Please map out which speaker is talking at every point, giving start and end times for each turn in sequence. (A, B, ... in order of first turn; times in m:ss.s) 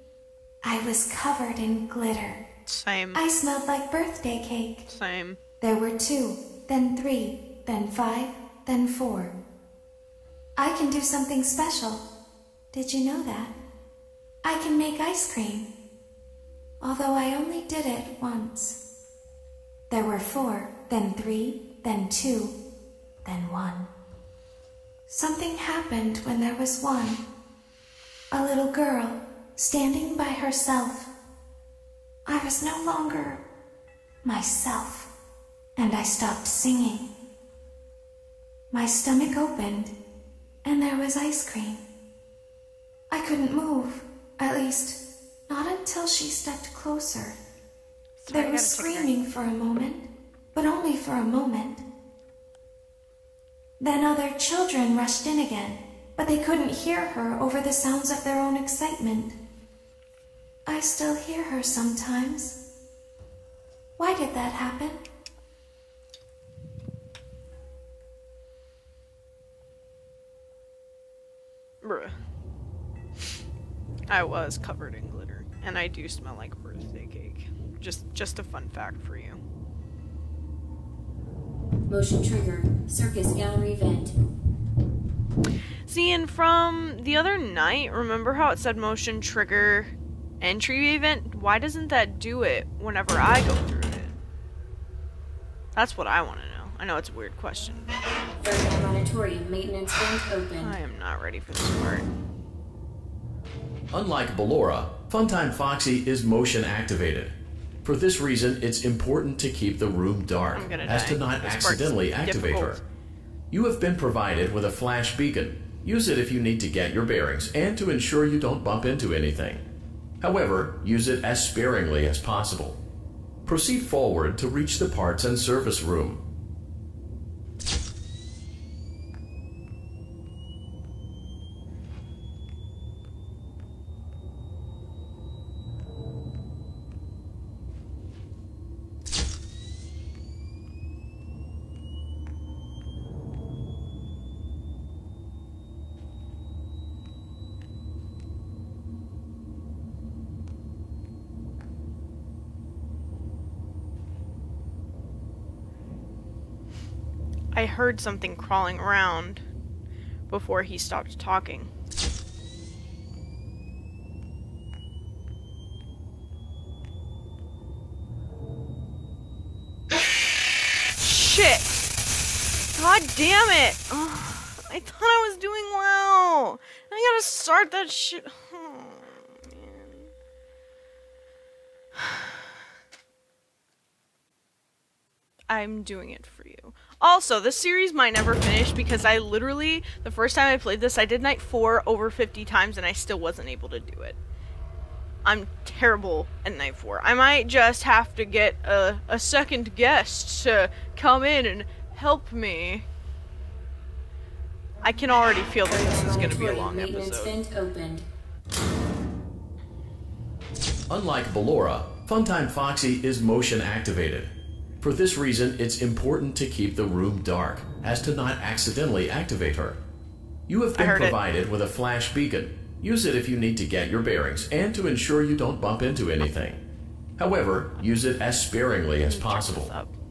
0:00.6-0:02.4 A
0:02.7-0:03.2 B
0:03.1-0:04.9 A
0:04.9-0:05.4 B
0:05.6-0:09.4 A
0:10.6-0:12.0 A
0:12.7-0:13.5 A
0:14.4-0:15.7 A
0:16.8-0:18.8 A
0:19.9-0:22.6 A
0:23.2-0:23.9 A
0:25.1-0:27.2 A
0:28.3-0:31.1 A
0:32.3-0:33.4 A
0:34.2-0:35.1 A
0:35.8-0:37.1 A
0:38.7-0:39.9 A
0:40.6-0:41.8 A
0:43.1-0:47.4 A
0:48.2-0:49.1 B
0:48.3-0:51.8 A
0:53.8-0:59.4 A
1:00.7-1:02.6 A
1:04.0-1:05.0 A
1:11.8-1:12.2 B
1:14.1-1:19.4 B
1:21.9-1:24.1 C
1:25.9-1:34.2 B
1:35.8-1:37.9 B
1:38.4-1:40.7 C
1:40.0-1:42.1 B
1:43.9-1:52.8 D
1:50.5-1:52.8 B
1:53.5-1:59.6 D
2:00.2-2:02.8 D
2:03.5-2:06.2 D
2:37.5-2:39.4 B
2:40.3-2:41.7 B
2:51.0-2:51.8 B
2:52.8-3:00.1 B
3:02.0-3:02.4 B
3:05.5-3:14.2 B
3:15.2-3:22.8 B
3:24.8-3:27.3 B
3:25.7-3:28.0 C
3:30.9-3:39.8 D
3:40.5-3:46.6 D
3:40.8-3:41.2 B
3:47.2-3:49.7 D
3:49.1-3:49.9 B